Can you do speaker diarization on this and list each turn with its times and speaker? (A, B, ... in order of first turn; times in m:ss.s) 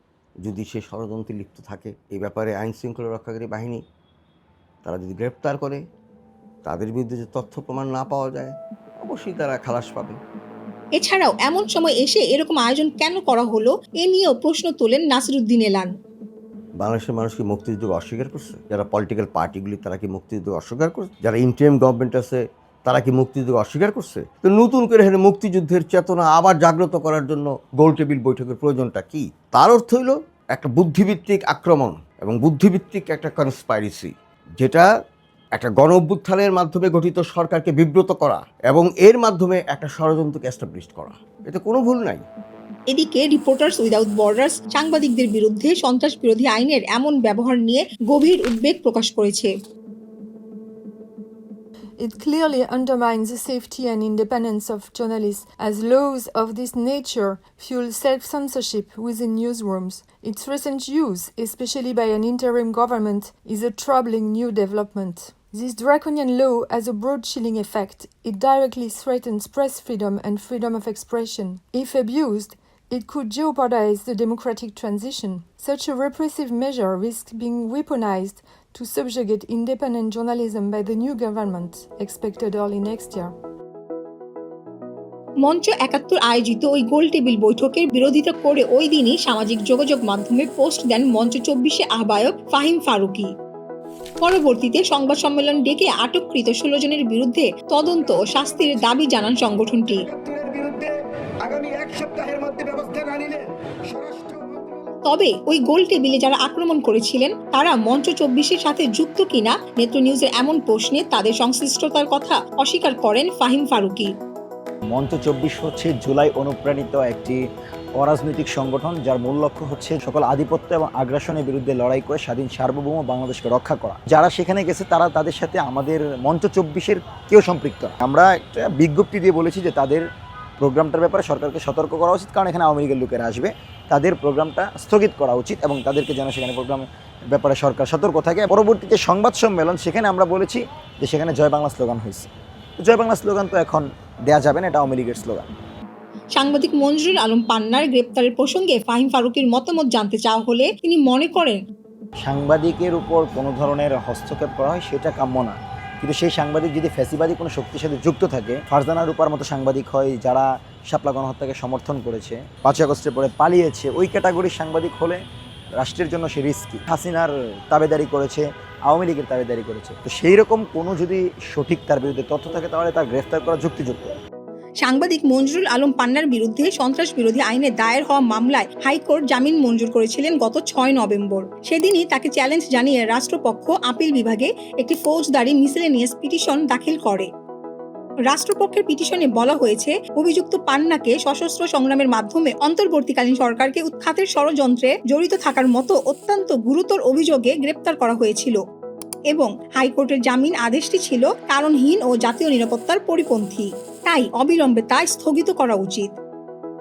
0:00.4-0:03.8 A
0:04.8-0:05.8 A
0:06.6-0:10.2 A
0:11.0-0:16.0 B
0:16.8-0:34.9 A
0:35.6-0:42.2 A
0:42.9-0:49.5 B
0:52.0-1:23.3 C
1:25.4-1:33.3 B
1:34.2-1:40.1 B
1:38.1-1:39.1 D
1:39.9-1:40.9 D
1:41.4-1:44.9 D
1:45.1-1:54.1 B
1:54.9-1:57.4 E
1:58.0-2:10.0 E
2:10.6-2:25.5 E
2:26.4-2:31.6 B
2:32.2-2:45.2 E
2:45.8-2:54.1 E
2:54.8-3:07.3 B
3:08.3-3:18.6 B
3:19.3-3:26.2 B